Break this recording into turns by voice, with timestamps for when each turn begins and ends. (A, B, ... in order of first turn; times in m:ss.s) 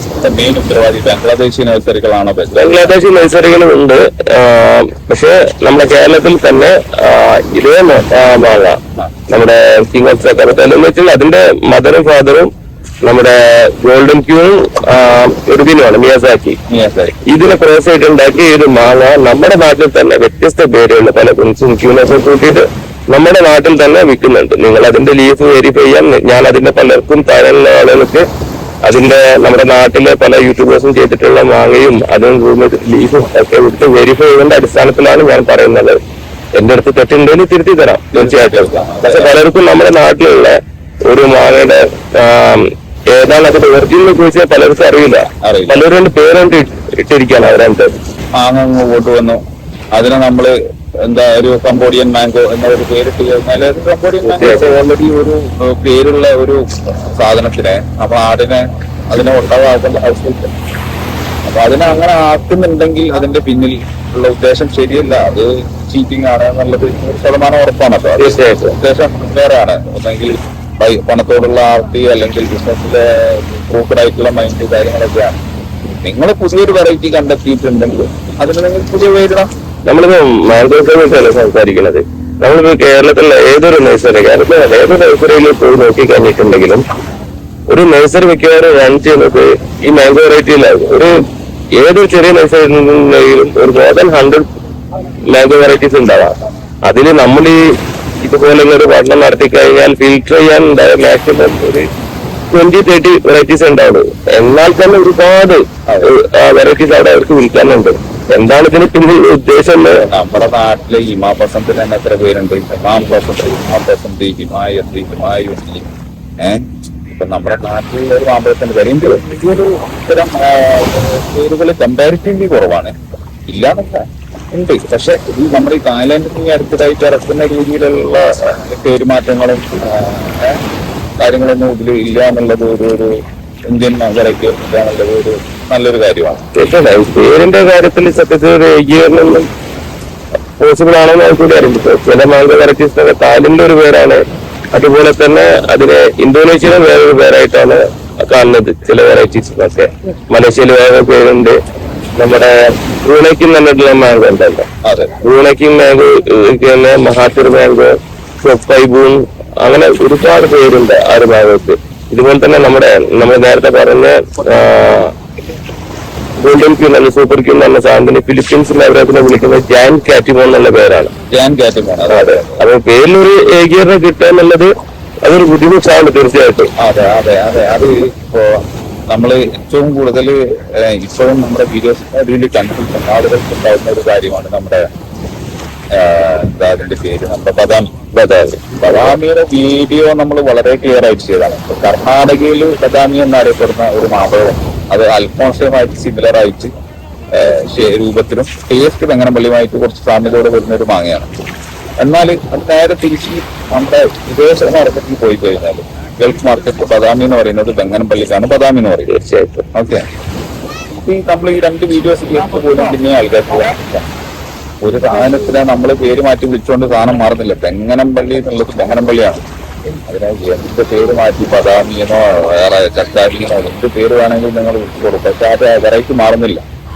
0:00.2-0:03.0 A
0:02.6-0:08.8 B
0:09.3-0:12.5 B
0:13.0-0:16.6 B
0:16.7-0:17.2 A
0:17.3-0:28.2 B
0:28.8-0:36.0 B
0:36.6-0:40.6 B
0:38.1-0:39.4 A
0:41.1-0:47.9 B
0:45.4-0:45.8 A
0:48.4-0:49.4 A
0:50.0-0:50.5 A
0:51.0-0:56.6 A
0:54.2-0:54.8 B
0:57.2-1:00.5 A
1:01.5-1:15.4 A
1:08.2-1:08.8 B
1:16.0-1:19.5 A
1:19.9-1:26.8 B
1:27.7-1:31.2 B
1:31.8-1:34.5 B
1:35.3-1:36.4 B
1:36.9-1:37.6 B
1:38.2-1:41.9 B
1:42.5-1:50.0 B
1:45.9-1:46.1 A
1:50.0-1:55.9 A
1:56.4-2:02.9 A
2:03.5-2:10.6 A
2:11.2-2:13.2 A
2:13.7-2:16.4 A
2:16.6-2:19.5 B
2:20.6-2:24.2 B
2:24.7-2:31.6 B
2:32.2-2:34.7 B
2:34.8-2:35.2 A
2:35.2-2:45.1 B
2:46.4-2:51.1 B
2:51.3-2:52.6 A
2:52.1-2:54.7 B
2:55.2-2:56.7 B
2:56.8-2:58.6 A
2:59.1-3:04.8 A
3:06.0-3:07.9 A
3:08.1-3:09.2 B
3:08.8-3:16.7 A
3:17.3-3:21.3 A
3:22.0-3:29.2 A
3:29.1-3:29.7 B
3:29.7-3:30.0 A
3:30.9-3:34.1 A
3:34.8-3:39.4 A
3:40.1-3:46.6 A